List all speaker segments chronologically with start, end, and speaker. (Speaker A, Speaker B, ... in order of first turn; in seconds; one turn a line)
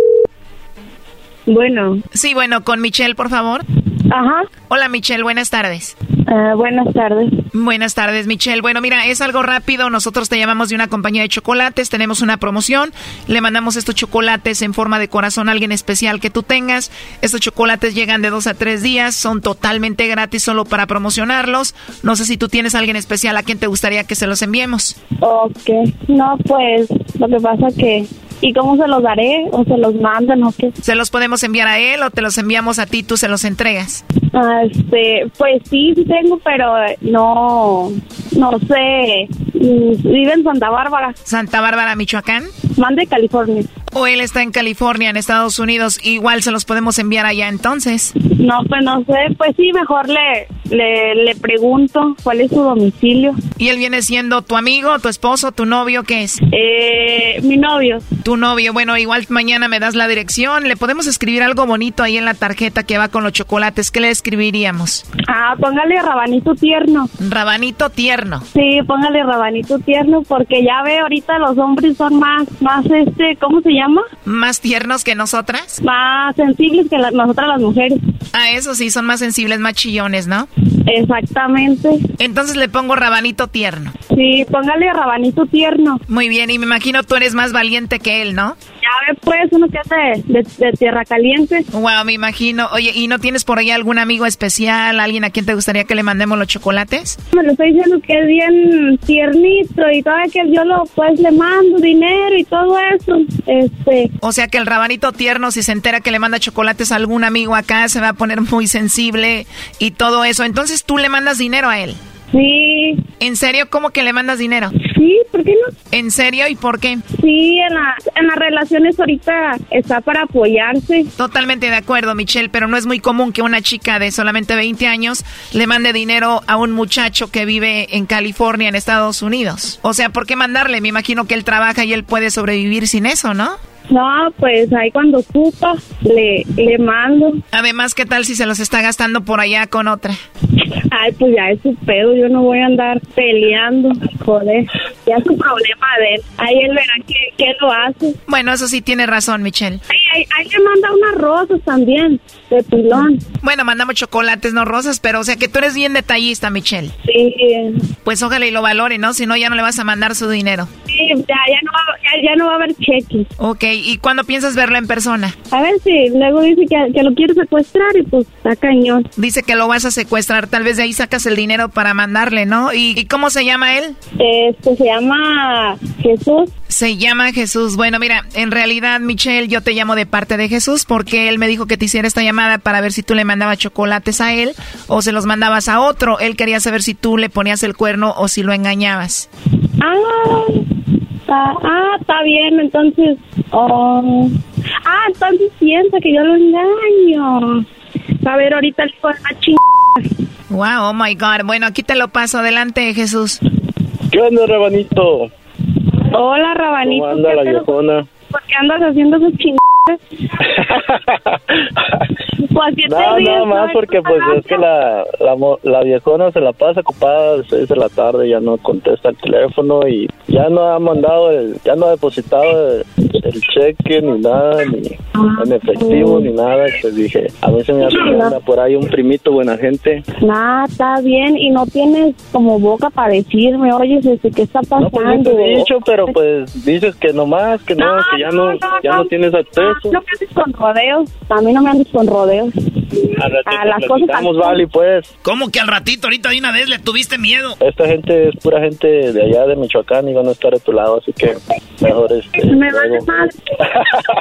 Speaker A: 1.5-2.0
Speaker B: 2.1-3.6
Speaker A: 4.1-4.5
Speaker B: 4.7-5.9
Speaker A: 6.2-7.3
Speaker B: 7.5-24.9
Speaker A: 25.2-30.7
Speaker B: 30.8-34.0
Speaker A: 34.3-41.1
Speaker B: 41.2-42.5
Speaker A: 42.7-43.7
Speaker B: 43.9-48.1
Speaker A: 48.2-53.4
Speaker B: 53.6-56.4
Speaker A: 56.5-58.0
Speaker B: 58.2-65.0
Speaker A: 65.3-67.1
Speaker B: 67.2-68.5
Speaker A: 68.5-74.0
Speaker B: 74.2-75.8
Speaker A: 75.8-78.0
Speaker B: 78.3-80.5
Speaker A: 80.8-82.0
Speaker B: 82.2-83.9
Speaker A: 84.1-86.0
Speaker B: 86.1-88.6
Speaker A: 88.8-91.6
Speaker B: 91.7-97.2
Speaker A: 97.3-104.1
Speaker B: 104.2-112.0
Speaker A: 112.3-113.0
Speaker B: 113.2-114.7
Speaker A: 114.8-115.7
Speaker B: 115.9-117.0
Speaker A: 117.2-121.1
Speaker B: 121.2-133.6
Speaker A: 133.9-137.4
Speaker B: 137.5-140.2
Speaker A: 140.6-148.2
Speaker B: 148.3-149.8
Speaker A: 149.9-153.2
Speaker B: 153.4-156.9
Speaker A: 157.0-157.9
Speaker B: 158.0-160.7
Speaker A: 160.9-163.3
Speaker B: 163.4-165.3
Speaker A: 165.5-169.1
Speaker B: 169.2-173.9
Speaker A: 174.2-176.5
Speaker B: 176.7-189.3
Speaker A: 189.8-190.7
Speaker A: 191.3-197.6
Speaker A: 198.2-200.1
Speaker B: 200.5-203.4
Speaker C: 204.1-205.3
Speaker A: 206.1-207.7
Speaker C: 206.8-208.1
Speaker A: 208.3-210.0
Speaker A: 212.5-214.6
Speaker C: 212.8-230.0
Speaker A: 225.2-226.3
Speaker A: 227.8-228.3
Speaker A: 230.2-236.1
Speaker C: 234.8-239.9
Speaker A: 237.8-242.5
Speaker C: 243.2-245.1
Speaker A: 243.4-244.6
Speaker D: 245.2-247.6
Speaker C: 247.6-253.1
Speaker A: 252.4-253.3